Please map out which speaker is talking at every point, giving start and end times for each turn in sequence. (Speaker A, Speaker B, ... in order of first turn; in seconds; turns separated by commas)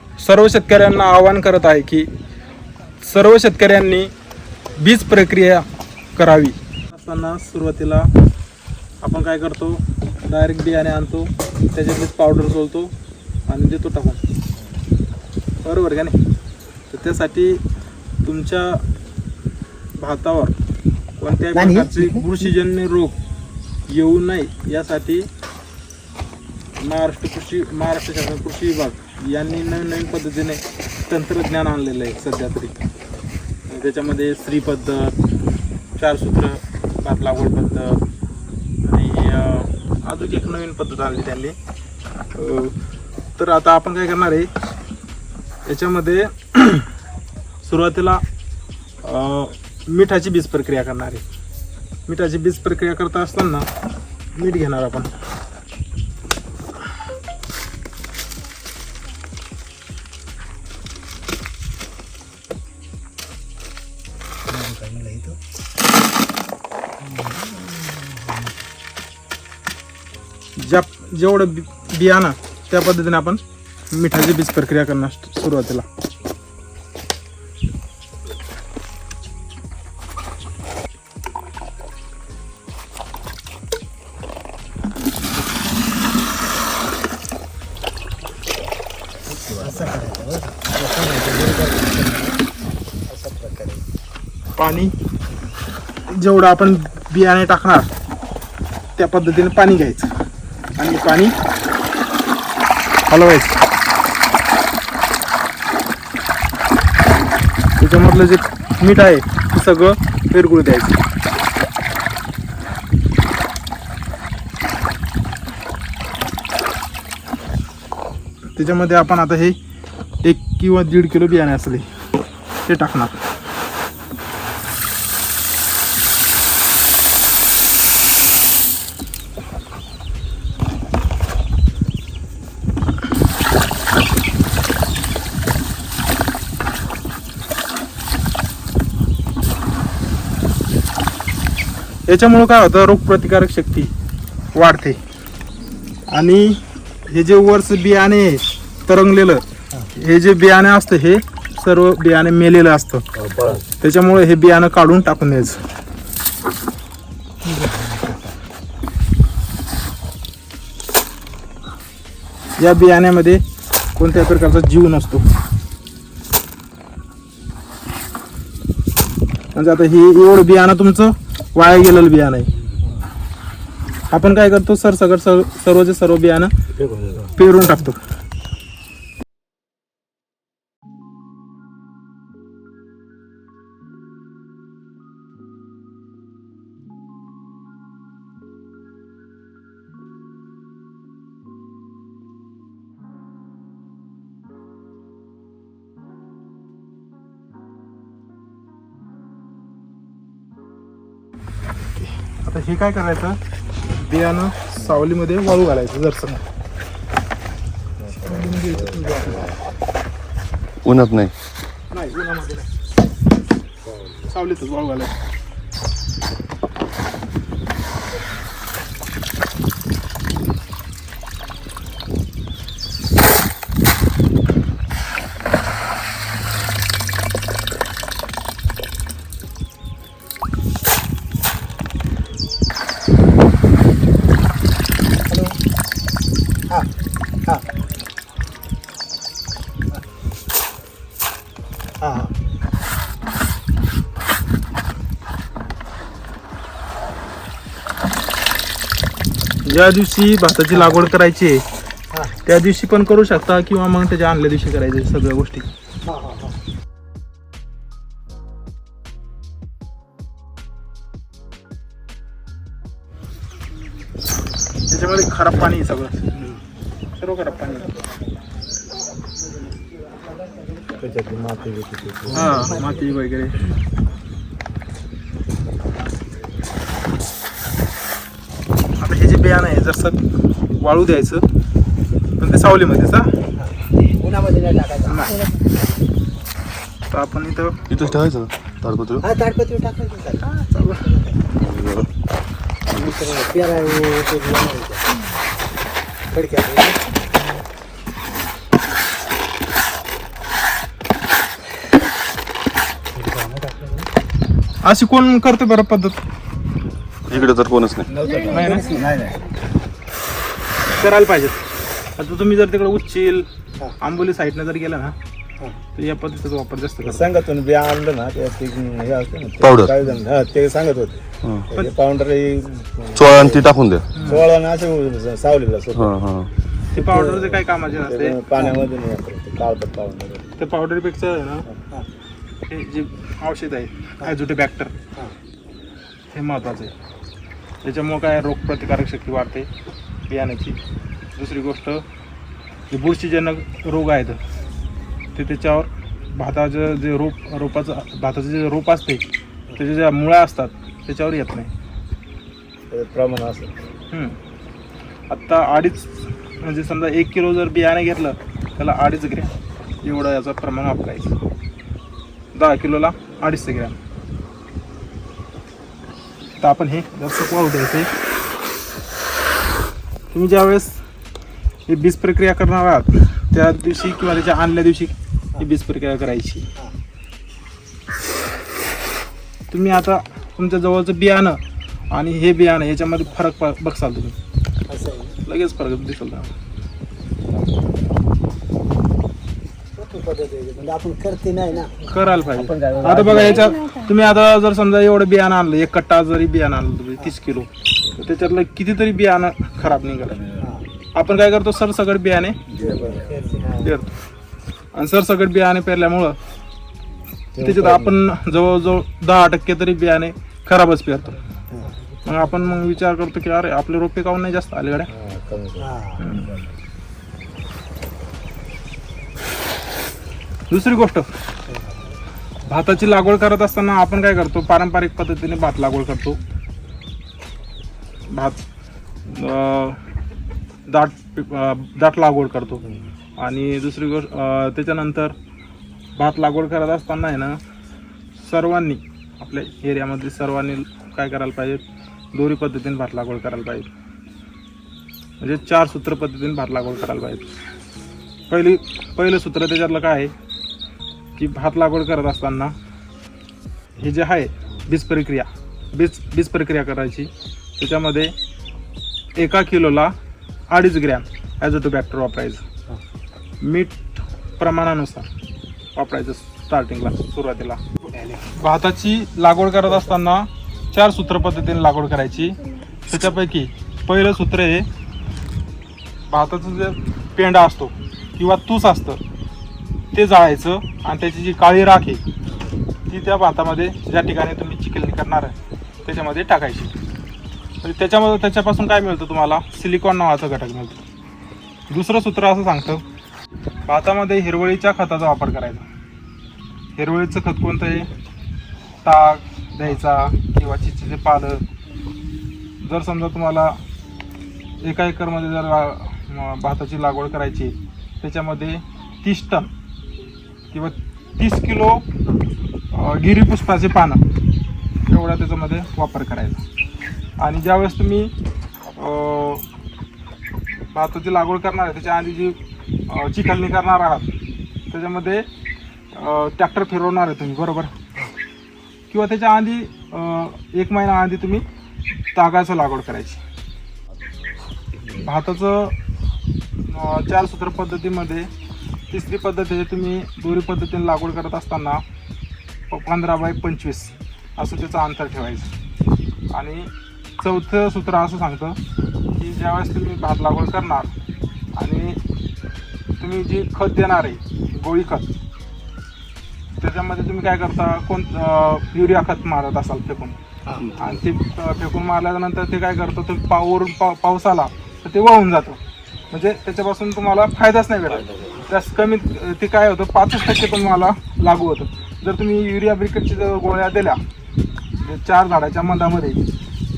Speaker A: 0.2-2.1, Speaker A: 3.0-4.1, Speaker A: 4.8-8.1, Speaker A: 9.0-12.9, Speaker A: 13.5-14.2, Speaker A: 15.6-16.2, Speaker A: 16.9-17.6, Speaker A: 18.2-18.8, Speaker A: 20.0-20.5, Speaker A: 21.2-23.2, Speaker B: 21.5-22.3, Speaker A: 23.9-25.3, Speaker A: 26.8-32.8, Speaker A: 33.7-35.1, Speaker A: 36.0-38.0, Speaker A: 38.8-41.5, Speaker A: 42.3-42.7, Speaker A: 43.4-44.5, Speaker A: 45.6-46.9, Speaker A: 47.6-48.2, Speaker A: 49.0-51.2, Speaker A: 52.1-53.7, Speaker A: 54.4-55.1, Speaker B: 64.5-65.4, Speaker B: 67.0-68.5, Speaker A: 70.6-75.8, Speaker C: 89.3-90.1, Speaker B: 89.4-92.4, Speaker B: 93.1-93.8, Speaker A: 94.5-94.9, Speaker A: 96.1-97.9, Speaker A: 99.0-100.1, Speaker A: 100.8-101.3, Speaker A: 103.1-103.6, Speaker A: 107.8-111.0, Speaker A: 118.5-119.6, Speaker A: 120.2-121.9, Speaker A: 122.6-123.2, Speaker A: 142.1-143.9, Speaker A: 144.5-145.0, Speaker A: 146.1-153.0, Speaker C: 153.2-153.6, Speaker A: 153.8-155.6, Speaker B: 157.4-158.3, Speaker A: 162.6-163.4, Speaker A: 163.9-165.3, Speaker A: 169.5-172.5, Speaker A: 174.1-176.5, Speaker C: 176.9-177.3, Speaker A: 177.3-178.0, Speaker A: 202.0-203.4, Speaker A: 203.9-206.4, Speaker C: 208.0-209.6, Speaker A: 208.2-209.5, Speaker D: 210.8-211.3, Speaker A: 211.9-212.7, Speaker A: 214.3-215.2, Speaker B: 235.3-235.6, Speaker B: 242.0-242.3, Speaker A: 249.6-251.6, Speaker B: 250.7-251.1, Speaker B: 252.1-252.4, Speaker A: 252.4-255.7, Speaker B: 256.1-256.6, Speaker A: 264.9-266.4, Speaker A: 267.1-267.9, Speaker C: 270.9-272.8, Speaker A: 272.3-273.7, Speaker B: 272.4-273.0, Speaker A: 279.0-280.2, Speaker A: 280.7-281.4, Speaker A: 282.4-283.3, Speaker B: 284.2-285.3, Speaker A: 285.1-285.4, Speaker A: 287.1-287.9, Speaker D: 287.9-289.2, Speaker B: 289.2-291.5, Speaker A: 290.4-291.1, Speaker D: 291.5-292.1, Speaker B: 292.9-295.1, Speaker B: 296.3-297.0, Speaker B: 303.1-304.1, Speaker A: 304.8-306.2, Speaker D: 307.3-308.3, Speaker C: 308.1-309.4, Speaker A: 308.5-309.1, Speaker B: 308.7-309.2, Speaker A: 310.9-311.6, Speaker A: 312.2-313.5, Speaker A: 314.0-315.1, Speaker A: 315.9-317.3, Speaker C: 317.0-326.2, Speaker D: 319.6-319.9, Speaker D: 321.4-321.7, Speaker D: 323.1-324.3, Speaker A: 324.1-324.5, Speaker D: 325.9-326.5, Speaker A: 326.9-328.4, Speaker B: 327.0-327.5, Speaker C: 328.0-330.5, Speaker A: 330.6-331.7, Speaker A: 332.7-335.0, Speaker A: 336.3-336.9, Speaker A: 337.8-339.7, Speaker A: 340.3-340.8, Speaker A: 341.3-342.0, Speaker A: 342.9-344.4, Speaker A: 345.3-349.2, Speaker A: 349.7-351.7, Speaker C: 352.9-353.8, Speaker A: 354.1-354.4, Speaker A: 355.3-361.3, Speaker A: 362.5-364.0, Speaker A: 366.6-368.1, Speaker A: 370.3-371.0, Speaker A: 371.9-376.6, Speaker A: 379.7-384.4, Speaker B: 384.9-385.4, Speaker A: 385.4-386.5, Speaker B: 390.0-393.7, Speaker A: 392.1-400.5, Speaker C: 392.6-393.5, Speaker B: 400.6-400.8, Speaker A: 401.1-402.6, Speaker C: 402.7-403.7, Speaker B: 402.7-404.0, Speaker A: 403.8-404.1, Speaker A: 404.9-406.4, Speaker C: 407.6-408.1, Speaker A: 407.6-411.4, Speaker A: 412.2-415.1, Speaker C: 415.1-416.7, Speaker B: 415.8-416.3, Speaker A: 416.2-416.6, Speaker A: 420.7-421.3, Speaker B: 421.7-421.9, Speaker A: 422.6-426.4, Speaker A: 428.3-428.6, Speaker A: 429.2-430.0, Speaker A: 430.9-432.8, Speaker A: 433.4-435.3, Speaker A: 436.2-437.6, Speaker A: 438.4-441.8, Speaker A: 442.3-443.9, Speaker A: 445.4-447.5, Speaker A: 448.5-450.3, Speaker A: 451.4-452.7, Speaker A: 454.0-458.3, Speaker A: 459.4-460.1, Speaker A: 460.7-462.6, Speaker A: 463.6-465.3, Speaker A: 465.9-467.8, Speaker A: 468.4-474.9, Speaker A: 476.3-479.2, Speaker A: 480.1-482.2, Speaker A: 483.1-486.9, Speaker A: 487.8-491.0, Speaker A: 491.9-493.0, Speaker A: 493.9-495.9, Speaker A: 496.9-498.1, Speaker A: 499.0-501.6, Speaker A: 502.8-503.8, Speaker A: 504.8-509.7, Speaker A: 510.7-512.1, Speaker A: 512.9-514.2, Speaker A: 515.0-516.6, Speaker A: 517.4-518.3, Speaker A: 519.0-519.6, Speaker A: 520.9-524.3, Speaker A: 524.9-525.5, Speaker A: 526.1-527.9, Speaker A: 529.1-531.6, Speaker A: 532.3-533.4, Speaker A: 535.1-536.0, Speaker A: 536.8-538.5, Speaker A: 539.1-542.0, Speaker A: 542.9-545.7, Speaker A: 546.5-548.8, Speaker A: 549.4-551.1, Speaker A: 551.8-552.2, Speaker A: 553.2-555.3, Speaker A: 556.8-574.2, Speaker A: 575.0-576.4